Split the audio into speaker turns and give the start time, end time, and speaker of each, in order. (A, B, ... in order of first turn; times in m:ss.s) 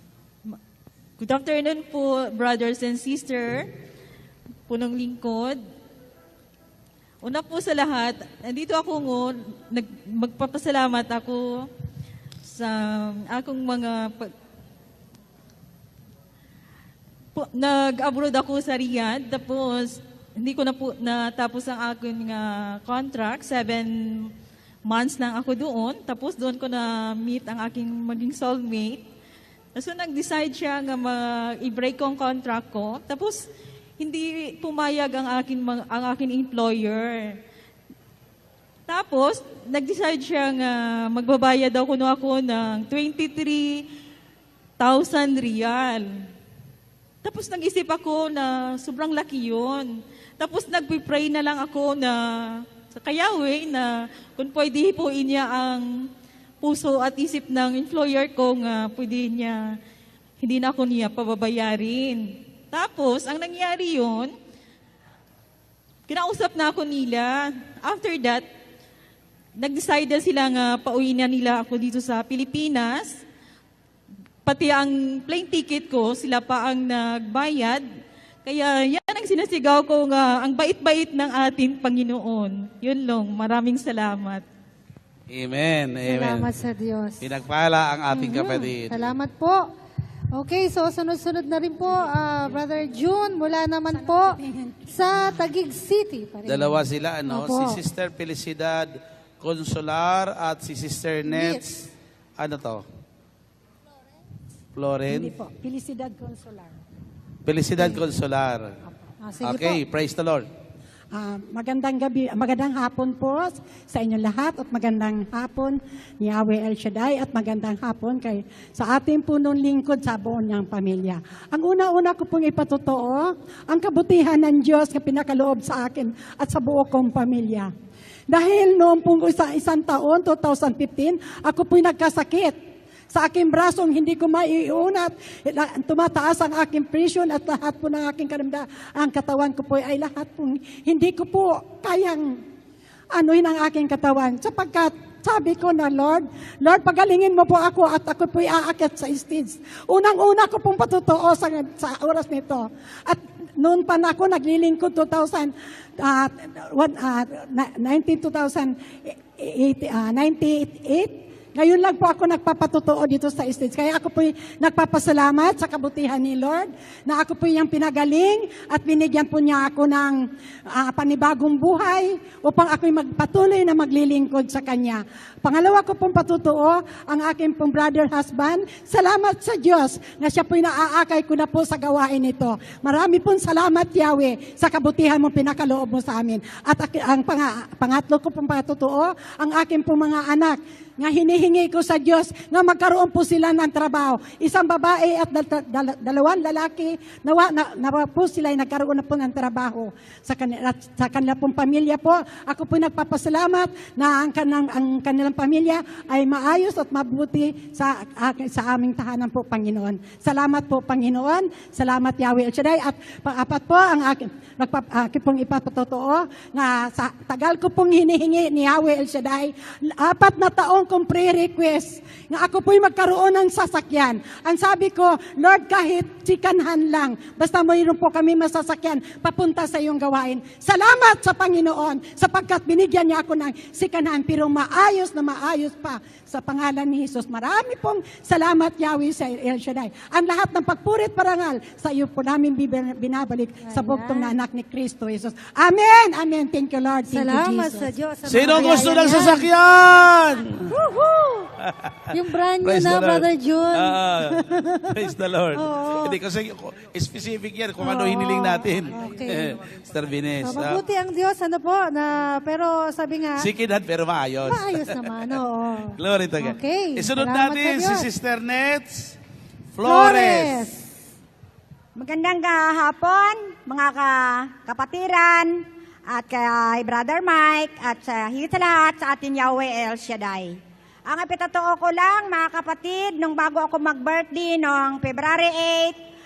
0:01.2-0:03.7 A
0:04.7-0:05.6 A
0:07.2-0:11.6 A
0:12.4-0:14.3 A
0:17.3-0:23.9 A
0:24.8-0:29.0 A
0:29.7-0:33.5 A
0:34.0-0:37.4 A
0:38.9-0:43.8 A
0:44.8-0:46.0 A
0:47.2-0:52.2 A
0:52.9-0:55.8 A
0:56.6-0:59.6 A
1:00.4-1:04.3 A
1:06.1-1:08.4 A
1:09.6-1:13.2 A
1:14.4-1:17.8 A
1:18.4-1:24.4 A
1:25.3-1:26.5 B
1:26.0-1:27.4 C
1:27.2-1:29.1 B
1:28.1-1:29.7 C
1:30.3-1:37.8 C
1:33.9-1:35.4 D
1:36.4-1:42.8 B
1:41.3-1:41.6 C
1:44.7-1:45.3 B
1:45.1-1:46.7 D
1:47.4-1:48.7 B
1:47.8-1:48.0 D
1:49.2-1:49.8 C
1:49.4-1:50.5 B
1:51.1-2:07.7 D
2:08.3-2:12.6 D
2:13.1-2:22.4 D
2:23.1-4:07.9 D
4:03.6-4:04.3 C
4:07.1-4:09.5 C
4:08.2-4:10.6 B
4:08.5-4:08.9 D
4:10.7-4:11.5 C
4:11.6-4:14.4 B
4:12.1-4:16.2 C
4:15.0-4:20.8 B
4:17.8-4:19.6 C
4:20.4-4:23.5 C
4:23.4-4:25.4 B
4:24.4-4:28.1 C
4:26.0-4:29.2 B
4:29.7-4:30.7 B
4:29.8-4:30.8 C
4:32.0-4:46.0 E